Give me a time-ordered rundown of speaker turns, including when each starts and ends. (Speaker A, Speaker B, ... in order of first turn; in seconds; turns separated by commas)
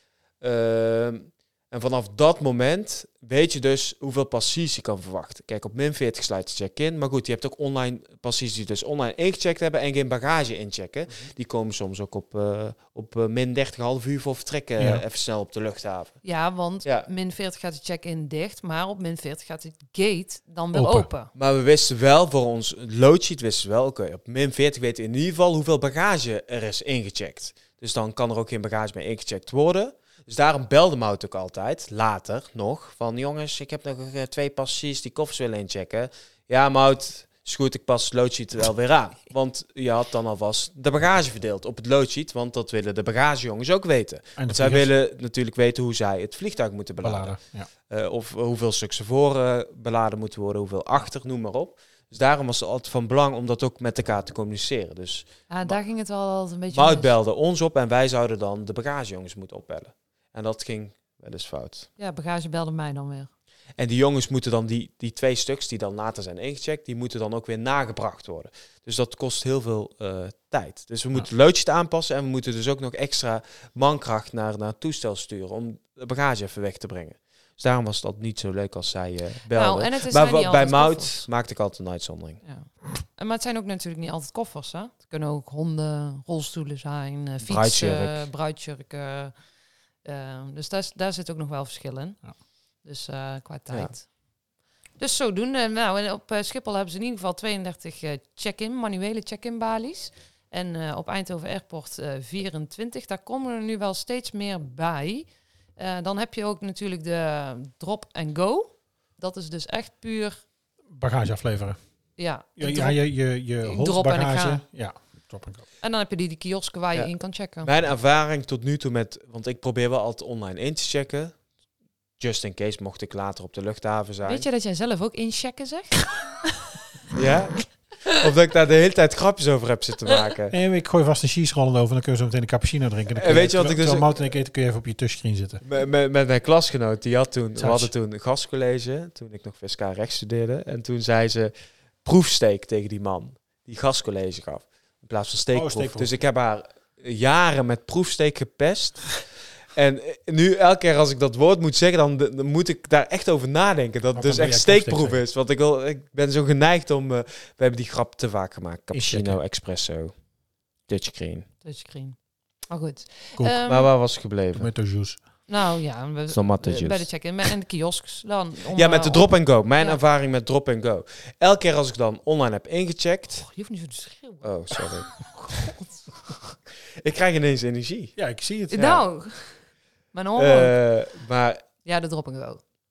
Speaker A: 0.4-16.2, Speaker B: 16.2-21.3, Speaker C: 20.7-21.1, Speaker A: 21.3-47.4, Speaker C: 44.4-44.9, Speaker C: 47.0-47.7, Speaker A: 47.9-55.8, Speaker B: 55.5-57.1, Speaker A: 56.7-61.9, Speaker B: 62.0-63.3, Speaker A: 63.8-82.4, Speaker B: 79.5-81.3, Speaker B: 82.4-89.3, Speaker A: 87.4-88.2, Speaker B: 90.0-92.2, Speaker B: 92.8-94.0, Speaker B: 95.0-110.4, Speaker C: 110.9-111.8, Speaker B: 112.2-113.0, Speaker C: 112.6-115.6, Speaker B: 113.6-114.6, Speaker B: 115.8-117.7, Speaker A: 117.6-121.3, Speaker A: 122.2-124.5, Speaker B: 124.2-126.7, Speaker A: 127.1-130.6, Speaker C: 130.5-135.6, Speaker A: 133.1-134.2, Speaker A: 135.6-141.5, Speaker C: 137.6-137.9, Speaker A: 142.0-149.2, Speaker C: 145.5-146.1, Speaker A: 149.7-160.1, Speaker C: 154.1-155.2, Speaker C: 158.9-159.4, Speaker A: 160.9-161.5, Speaker B: 161.6-162.2, Speaker B: 162.7-163.9, Speaker C: 163.3-163.6, Speaker A: 163.7-164.7, Speaker C: 164.5-165.2, Speaker B: 165.5-170.0, Speaker A: 166.3-167.1, Speaker A: 168.7-173.4, Speaker B: 173.3-176.5, Speaker A: 174.4-175.1, Speaker A: 177.0-178.2, Speaker C: 178.2-178.8, Speaker B: 178.7-180.8, Speaker A: 178.7-179.0, Speaker A: 180.4-181.6, Speaker B: 181.8-182.6